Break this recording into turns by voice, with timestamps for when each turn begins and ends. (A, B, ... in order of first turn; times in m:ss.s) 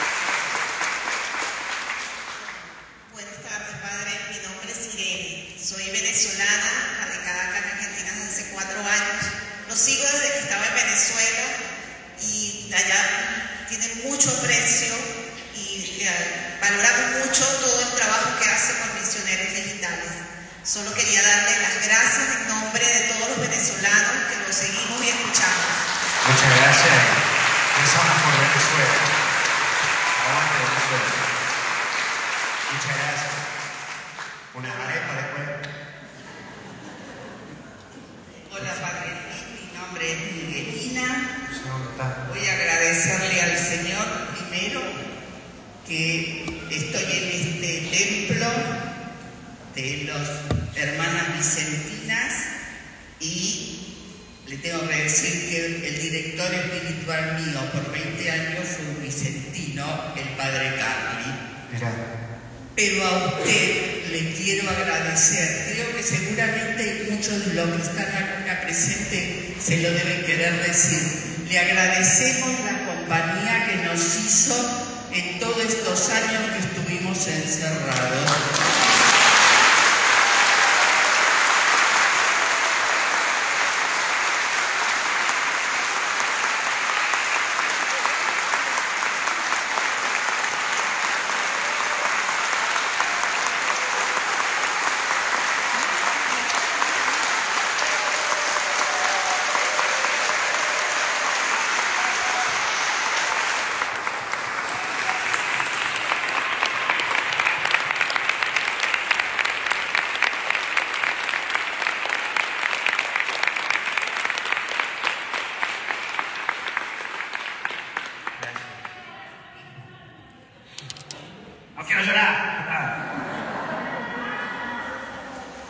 0:03.1-0:11.6 A
0:12.2-0:25.8 A
0:26.2-0:27.2 B
0:27.7-0:29.1 B
0:30.1-0:31.2 B
0:32.7-0:33.4 B
0:34.5-0:35.6 B
0:38.4-0:41.3 C
0:38.6-0:38.8 B
0:41.4-0:42.2 B
0:42.2-0:45.0 C
0:45.8-0:48.6 C
0:49.7-0:52.5 C
0:53.2-0:53.6 C
0:54.4-1:01.4 C
1:01.7-1:02.0 B
1:02.7-1:18.4 C
1:58.4-1:58.8 B
2:01.8-2:02.9 B